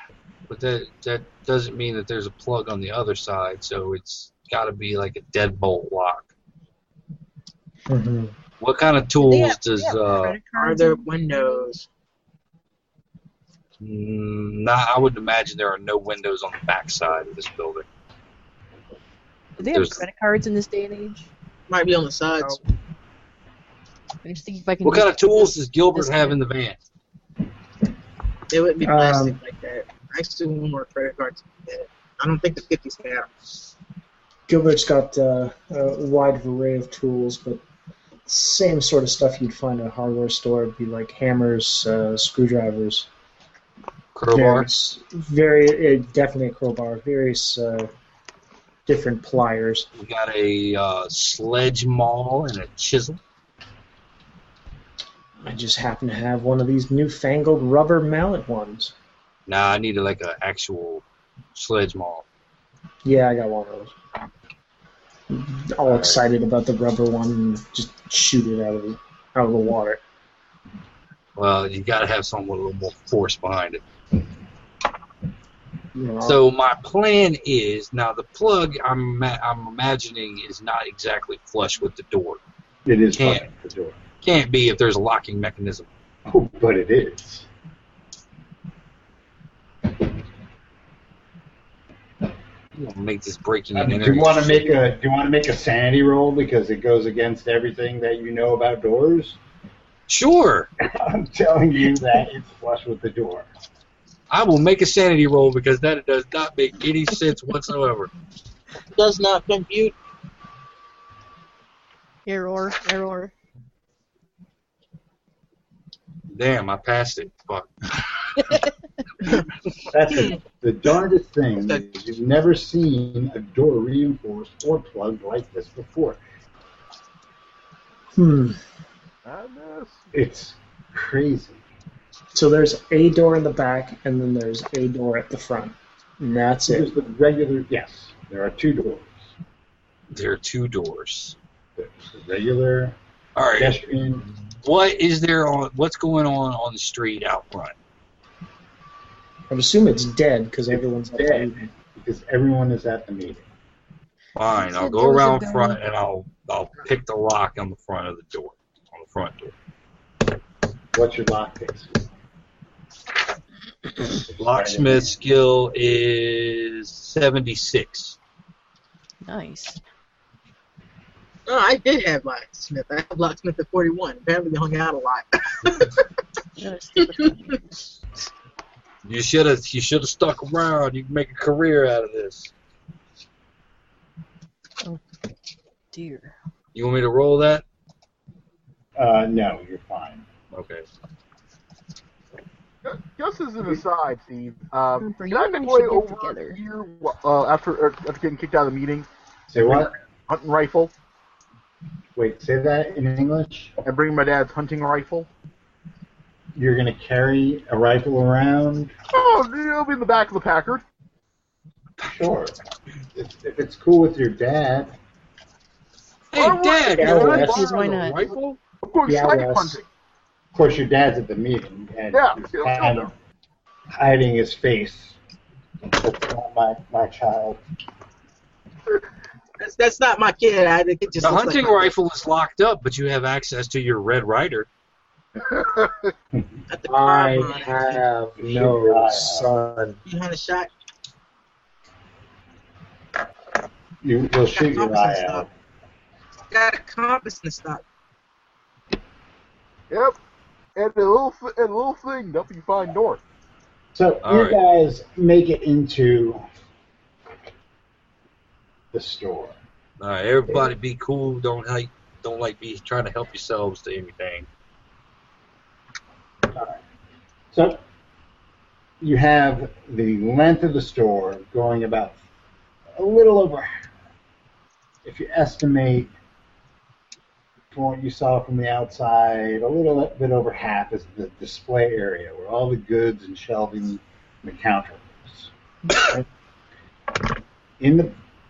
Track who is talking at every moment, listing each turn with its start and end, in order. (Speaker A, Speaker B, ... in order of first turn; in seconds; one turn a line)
Speaker A: 0.5-6.3
Speaker B: 7.9-8.3
Speaker A: 8.6-10.4
Speaker C: 9.2-11.7
Speaker D: 10.5-11.8
Speaker A: 13.8-17.8
Speaker C: 19.6-21.3
Speaker A: 19.7-20.0
Speaker D: 21.7-22.6
Speaker C: 24.2-26.4
Speaker A: 24.8-26.8
Speaker D: 28.5-33.3
Speaker B: 28.8-29.4
Speaker B: 34.5-37.6
Speaker B: 38.2-43.1
Speaker A: 44.1-44.7
Speaker B: 44.3-47.9
Speaker B: 48.9-49.9
Speaker A: 50.0-53.2
Speaker B: 55.4-58.9
Speaker A: 59.5-62.2
Speaker B: 63.0-63.9
Speaker B: 65.3-70.0
Speaker A: 65.8-66.2
Speaker A: 71.3-73.8
Speaker B: 75.9-76.4
Speaker A: 76.2-82.4
Speaker E: 82.8-84.0
Speaker A: 83.2-83.5
Speaker A: 84.2-85.9
Speaker E: 86.3-87.5
Speaker A: 92.7-94.7
Speaker E: 93.7-99.4
Speaker A: 100.1-100.7
Speaker E: 100.8-103.5
Speaker A: 104.3-108.1
Speaker D: 109.0-109.9
Speaker C: 112.2-113.3
Speaker A: 116.3-117.7
Speaker E: 119.9-126.2
Speaker D: 121.6-121.8
Speaker B: 128.2-128.6
Speaker F: 129.2-130.1
Speaker E: 130.1-131.6
Speaker B: 132.3-136.9
Speaker E: 136.7-139.3
Speaker A: 140.1-141.3
Speaker E: 141.8-143.0
Speaker A: 143.3-143.8
Speaker E: 143.5-144.2
Speaker A: 144.6-147.7
Speaker B: 149.5-151.7
Speaker E: 150.7-153.4
Speaker A: 154.3-159.5
Speaker C: 154.5-155.8
Speaker E: 160.9-162.0
Speaker E: 164.3-165.2
Speaker A: 164.4-168.2
Speaker C: 169.2-169.8
Speaker D: 171.5-176.0
Speaker C: 176.6-177.7
Speaker A: 179.0-182.5
Speaker C: 185.9-186.3
Speaker A: 186.7-187.6
Speaker E: 189.0-190.2
Speaker A: 190.5-190.8
Speaker F: 192.8-199.1
Speaker C: 195.0-196.6
Speaker E: 199.5-199.9
Speaker F: 199.6-200.9
Speaker E: 202.2-203.7
Speaker F: 203.8-205.3
Speaker E: 206.6-208.9
Speaker F: 209.1-210.8
Speaker E: 212.0-212.6
Speaker E: 213.1-214.9
Speaker A: 216.3-218.6
Speaker F: 216.3-217.6
Speaker B: 216.9-217.7
Speaker C: 217.0-218.3
Speaker F: 218.8-219.8
Speaker B: 219.1-219.8
Speaker E: 220.5-223.1
Speaker F: 222.1-223.1
Speaker E: 223.9-225.2
Speaker E: 226.0-227.6
Speaker D: 229.6-231.9
Speaker A: 231.2-234.7
Speaker F: 235.4-236.1
Speaker D: 236.7-238.0
Speaker B: 237.6-240.0
Speaker E: 238.4-239.5
Speaker D: 240.1-240.7
Speaker E: 244.0-245.5
Speaker D: 244.5-245.4
Speaker D: 246.5-247.8
Speaker F: 249.9-250.2
Speaker F: 250.7-253.2
Speaker E: 253.9-256.4
Speaker A: 254.2-254.6
Speaker E: 258.9-259.6
Speaker A: 260.0-264.5
Speaker E: 266.5-266.8
Speaker E: 267.5-267.8
Speaker E: 269.0-272.2
Speaker E: 272.9-273.7
Speaker E: 275.0-276.1
Speaker E: 277.7-285.5
Speaker B: 286.0-286.2
Speaker E: 287.8-288.1